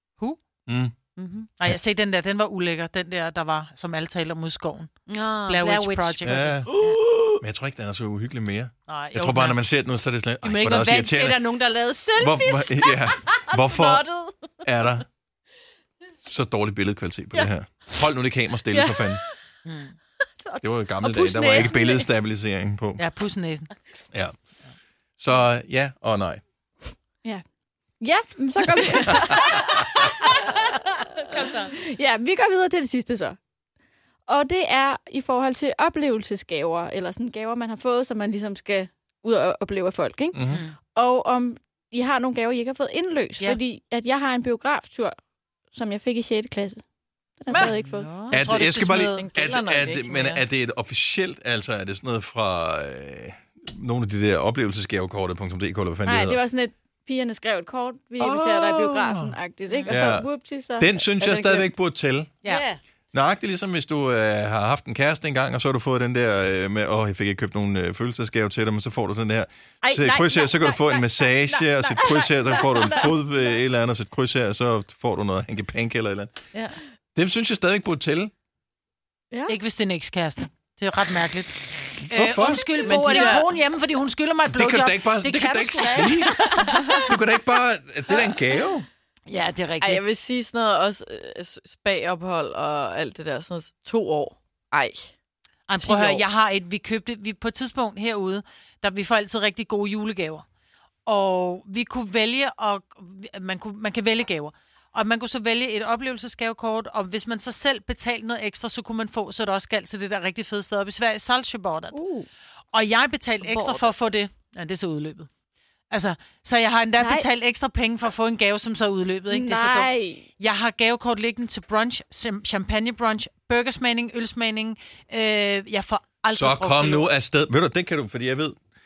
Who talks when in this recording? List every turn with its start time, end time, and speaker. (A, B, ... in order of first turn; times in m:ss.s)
0:00.7-0:01.0 A
0:01.2-0:01.5 B
0:01.6-0:04.9 C
0:05.1-0:06.2 B
0:05.5-0:06.9 C
0:06.2-0:11.5 A
0:08.9-0:09.6 C
0:10.4-0:14.3 B
0:12.2-0:14.1 A
0:14.6-0:15.1 A
0:16.2-0:19.2 A
0:18.7-0:19.4 B
0:19.7-0:20.0 C
0:20.4-0:22.1 B
0:20.6-0:23.0 A
0:23.0-0:23.7 C
0:25.2-0:26.4 A
0:28.0-0:33.4 D
0:31.2-0:31.7 B
0:34.3-0:45.2 D
0:40.3-0:40.6 A
0:40.5-0:40.8 C
0:45.7-0:46.8 D
0:47.4-0:48.1 D
0:47.5-0:49.2 C
0:48.3-0:56.4 A
0:48.4-0:50.4 E
0:56.0-1:01.7 D
0:58.2-0:59.4 A
0:59.7-1:00.0 C
0:59.9-1:02.3 A
1:02.4-1:02.8 C
1:02.5-1:02.7 D
1:03.1-1:16.4 A
1:09.8-1:12.6 B
1:17.2-1:18.3 A
1:19.3-1:19.6 D
1:19.5-1:21.5 C
1:22.0-1:22.7 A
1:22.1-1:26.8 C
1:22.7-1:23.6 E
1:24.5-1:26.4 A
1:26.2-1:27.1 D
1:27.0-1:28.9 A
1:29.3-1:30.0 C
1:29.8-1:35.1 E
1:35.7-1:40.4 C
1:35.8-1:36.2 E
1:41.1-1:52.0 C
1:51.9-1:52.3 D
1:52.7-1:55.3 C
1:53.4-1:54.0 E
1:55.9-2:07.1 C
1:57.0-1:57.3 D
1:59.3-2:00.3 D
2:06.3-2:08.6 A